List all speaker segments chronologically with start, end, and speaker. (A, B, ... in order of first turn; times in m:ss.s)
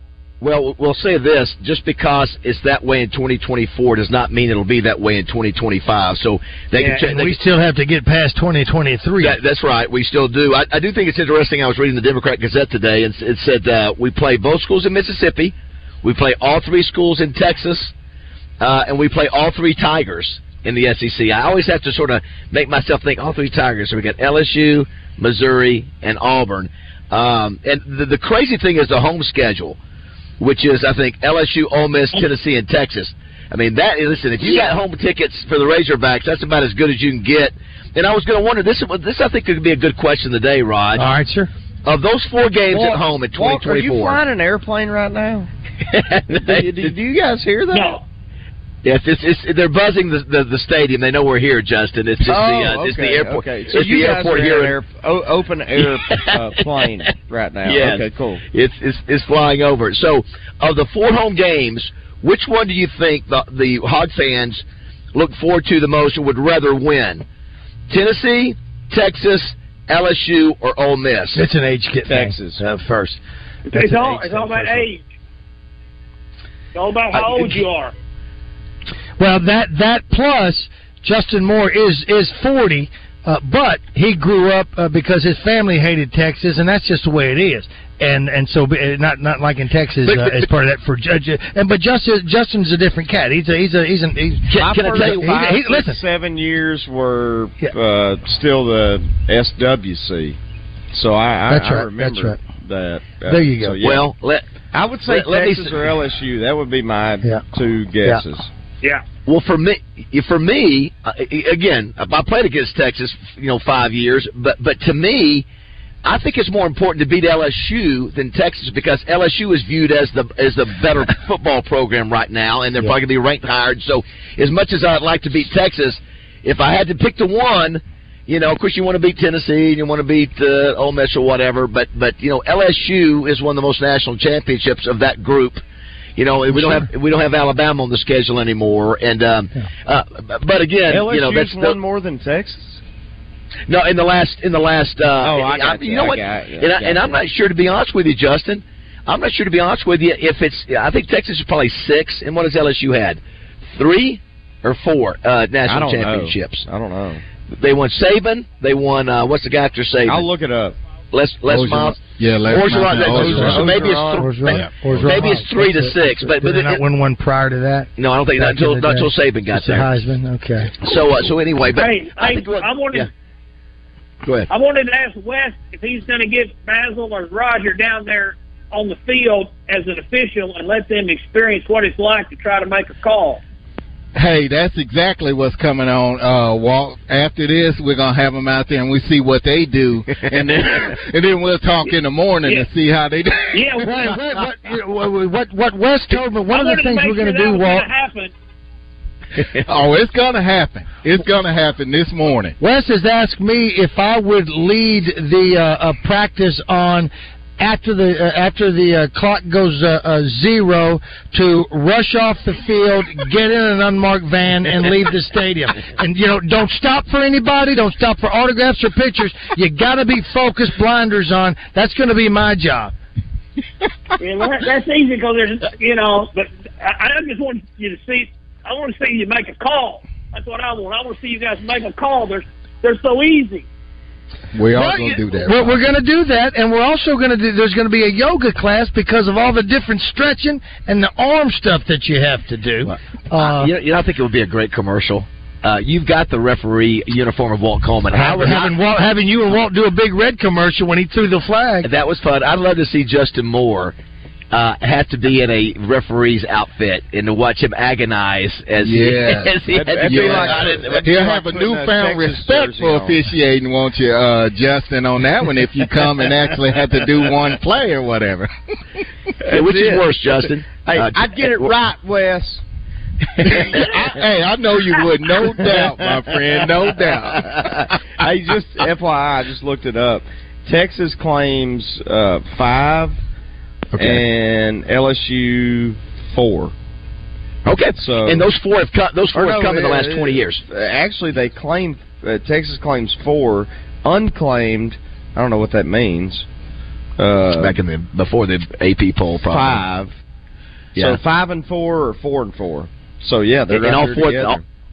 0:00.4-0:07.4 A
0:06.8-0:09.3 B
0:09.2-0:17.9 A
0:18.6-0:29.8 A
0:30.4-0:41.1 A
0:41.0-0:41.5 B
0:41.8-0:44.2 A
0:42.7-0:45.5 C
0:45.9-0:47.0 A
0:46.3-0:48.0 C
0:47.7-0:48.0 D
0:48.8-0:54.8 A
0:52.2-0:58.4 C
0:57.6-1:07.2 A
1:07.9-1:11.4 A
1:11.3-1:13.2 B
1:12.0-1:12.6 C
1:13.7-1:14.8 B
1:13.7-1:15.0 D
1:16.7-1:17.9 D
1:19.2-1:36.0 B
1:30.0-1:30.5 A
1:34.5-1:35.3 A
1:34.6-1:40.4 C
1:40.9-1:44.1 C
1:41.5-1:42.4 B
1:43.3-1:43.8 B
1:43.8-1:44.5 A
1:44.7-1:48.5 C
1:45.1-1:45.9 A
1:49.2-1:55.4 A
1:56.0-2:15.6 A
2:16.2-2:21.8 A
2:16.5-2:16.8 B
2:20.9-2:22.8 C
2:23.7-2:33.2 A
2:25.2-2:27.2 C
2:33.7-2:36.6 A
2:35.6-2:37.2 C
2:37.5-2:40.3 A
2:40.0-2:40.8 C
2:41.1-2:46.8 A
2:41.5-2:43.9 E
2:42.9-2:44.3 C
2:43.3-2:50.7 B
2:44.5-2:45.1 E
2:48.0-2:49.9 A
2:50.8-2:53.1 A
2:51.7-2:53.1 D
2:54.5-3:03.4 D
3:04.2-3:14.1 E
3:13.5-3:13.9 D
3:13.8-3:17.8 B
3:16.5-3:18.3 D
3:19.6-3:22.6 E
3:22.6-3:42.9 B
3:44.2-3:53.6 D
3:54.5-3:55.8 E
3:55.3-4:03.7 B
4:02.8-4:08.7 A
4:08.1-4:11.9 B
4:11.8-4:14.0 A
4:14.5-4:21.2 A
4:18.8-4:28.5 E
4:19.7-4:23.3 C
4:29.4-4:32.6 C
4:29.5-4:31.7 A
4:33.4-4:33.8 A
4:33.5-4:37.9 E
4:35.6-4:36.3 C
4:37.5-4:43.2 C
4:44.0-4:44.2 E
4:44.0-4:46.7 C
4:47.6-4:50.6 A
4:48.0-4:48.5 C
4:49.3-4:56.4 C
4:57.2-4:57.8 C
4:57.5-4:59.8 A
4:59.5-5:00.2 C
5:00.9-5:04.6 C
5:01.0-5:01.2 A
5:03.7-5:04.6 A